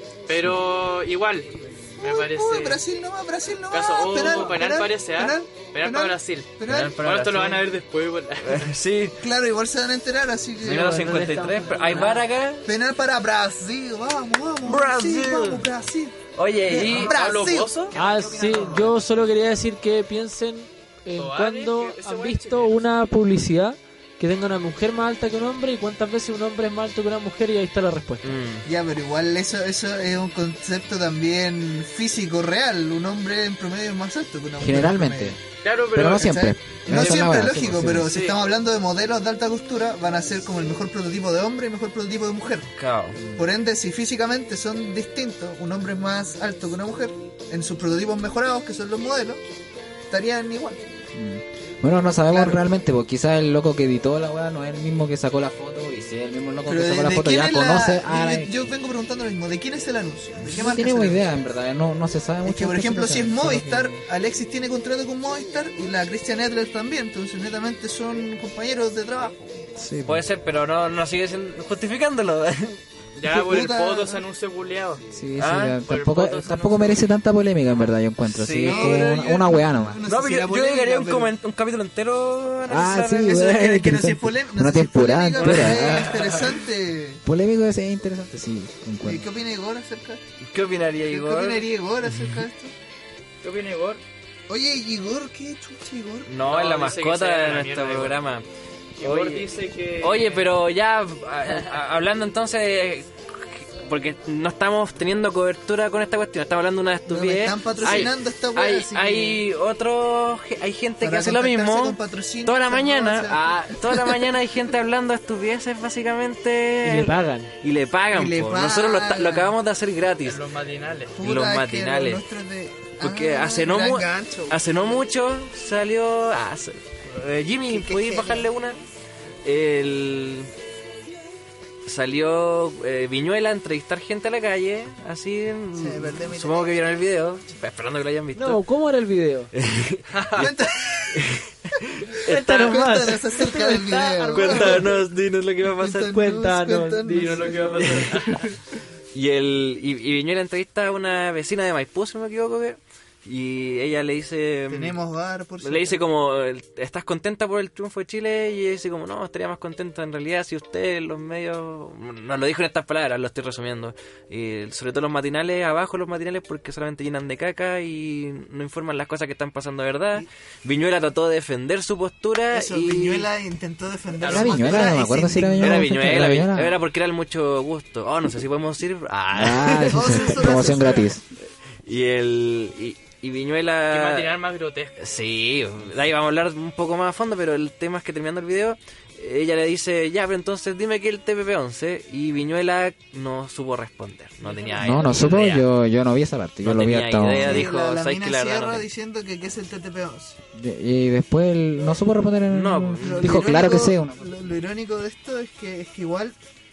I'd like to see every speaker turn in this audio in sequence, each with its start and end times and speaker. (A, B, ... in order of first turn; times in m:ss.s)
0:00.3-0:02.8 A
0:02.0-0:07.0 B
0:03.7-0:08.7 A
0:06.6-0:07.7 C
0:08.4-0:09.2 C
0:09.2-0:11.3 B
0:10.6-0:12.7 C
0:10.8-0:12.2 D
0:12.6-0:19.0 B
0:14.6-0:15.7 C
0:16.3-0:17.2 C
0:16.8-0:18.0 A
0:17.9-0:28.3 D
0:21.2-0:22.8 A
0:28.2-0:28.6 C
0:28.6-0:35.4 B
0:34.6-0:35.4 E
0:35.6-0:36.4 A
0:35.9-0:38.2 E
0:36.0-0:42.7 B
0:38.1-0:38.4 A
0:42.8-0:43.2 C
0:43.2-0:43.4 E
0:43.3-0:49.4 B
0:50.1-0:50.9 B
0:51.1-0:58.5 E
0:52.3-0:52.6 B
0:56.7-1:01.2 B
1:00.4-1:04.0 E
1:02.4-1:09.7 B
1:09.8-1:10.2 E
1:10.0-1:12.8 C
1:13.2-1:15.0 A
1:13.2-1:14.2 B
1:15.1-1:20.0 E
1:15.4-1:15.8 C
1:15.8-1:17.0 A
1:18.2-1:19.2 C
1:18.6-1:21.3 B
1:20.0-1:23.3 C
1:22.7-1:26.3 E
1:23.2-1:27.2 B
1:25.4-1:26.5 C
1:27.2-1:29.3 E
1:29.0-1:30.2 B
1:30.4-1:32.4 C
1:31.1-1:32.7 B
1:33.4-1:34.0 A
1:34.5-1:36.3 B
1:36.3-1:38.4 C
1:36.4-1:38.2 A
1:39.0-1:40.5 A
1:39.0-2:00.4 C
1:47.1-1:49.4 B
1:47.8-1:48.1 A
1:51.0-1:54.3 B
1:56.8-1:57.5 D
1:58.1-1:59.5 B
2:00.2-2:01.2 A
2:01.2-2:04.7 B
2:01.2-2:02.2 C
2:03.0-2:08.8 C
2:07.7-2:08.5 B
2:09.4-2:10.5 C
2:11.8-2:18.6 C
2:15.7-2:16.8 B
2:18.3-2:19.5 D
2:19.5-2:20.5 C
2:20.1-2:20.5 A
2:20.4-2:21.2 B
2:21.1-2:22.7 C
2:22.2-2:24.9 D
2:22.2-2:25.0 B
2:24.3-2:26.2 C
2:25.6-2:28.1 B
2:26.1-2:27.5 D
2:27.0-2:28.5 A
2:27.8-2:28.4 C
2:29.1-2:35.0 C
2:34.7-2:36.0 B
2:35.6-2:53.3 C
2:52.5-2:55.9 B
2:54.2-2:55.0 A
2:54.2-2:56.8 E
2:55.6-3:00.7 C
2:59.3-3:01.2 E
2:59.9-3:01.1 B
3:01.8-3:04.3 C
3:03.9-3:05.0 A
3:05.0-3:15.6 C
3:14.4-3:15.2 A
3:14.8-3:17.6 E
3:16.6-3:18.8 C
3:17.3-3:20.4 B
3:20.5-3:24.3 E
3:22.5-3:23.7 C
3:23.0-3:26.4 B